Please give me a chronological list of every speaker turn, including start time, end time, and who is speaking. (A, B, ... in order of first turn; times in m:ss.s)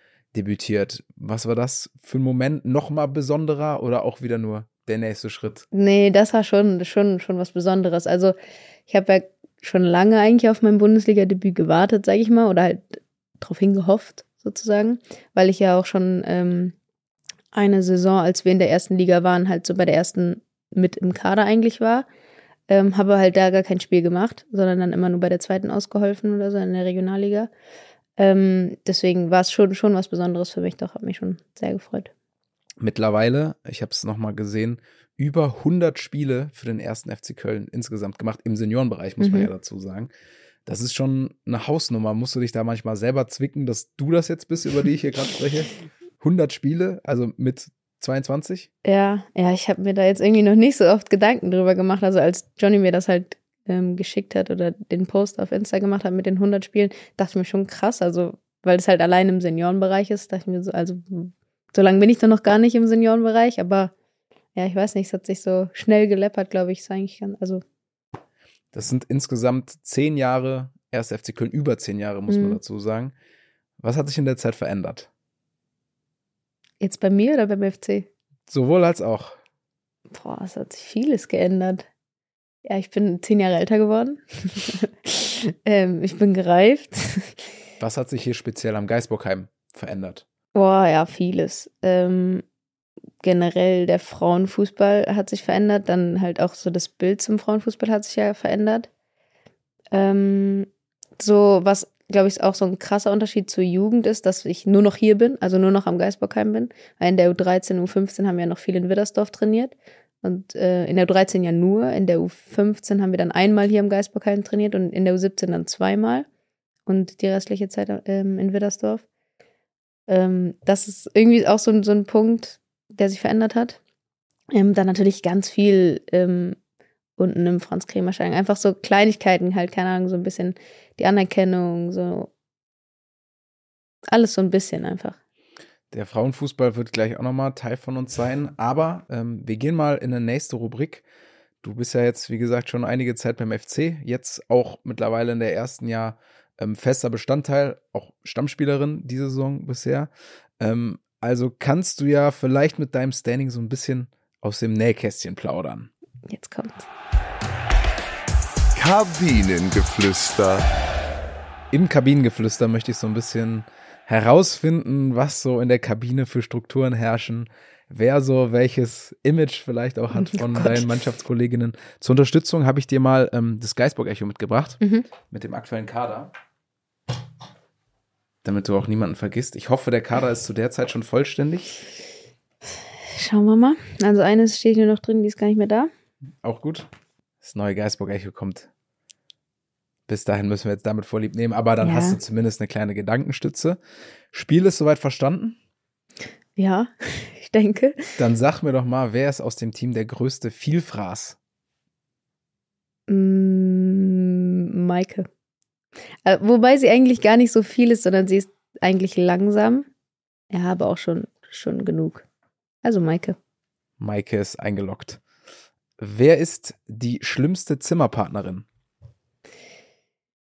0:00.3-0:05.6 A
0:05.7-0:08.3 B
0:08.9-0:16.7 B
0:17.5-0:22.0 B
0:22.7-0:27.5 B
0:28.2-0:32.1 B
0:32.8-0:40.1 A
0:39.2-0:39.5 B
0:40.6-0:48.7 A
0:48.8-1:03.9 B
1:04.5-1:07.6 B
1:08.7-1:13.1 A
1:12.3-1:12.6 B
1:13.8-1:15.1 A
1:16.8-1:18.1 B
1:18.5-1:19.4 A
1:20.1-1:21.8 B
1:22.6-1:27.3 B
1:27.8-1:30.2 A
1:30.5-1:32.4 B
1:33.2-1:38.9 B
1:39.9-1:40.7 B
1:41.2-1:56.3 B
1:56.8-1:59.0 B
2:00.1-2:03.8 B
2:04.5-2:06.6 B
2:07.2-2:12.3 B
2:14.1-2:15.2 B
2:15.9-2:21.0 A
2:21.6-2:35.9 A
2:36.3-2:36.9 B
2:38.7-2:40.7 C
2:41.7-2:56.3 A
2:50.2-2:50.8 B
2:58.4-3:01.8 A
3:03.1-3:05.9 B
3:06.4-3:06.9 A
3:07.4-3:08.7 A
3:10.1-3:13.8 A
3:11.8-3:12.2 B
3:14.3-3:15.6 A
3:16.6-3:18.0 B
3:18.2-3:21.4 A
3:23.1-3:25.3 B
3:26.2-3:29.9 B
3:30.5-3:32.2 B
3:32.8-3:33.4 B
3:34.0-3:35.2 A
3:36.0-3:38.6 A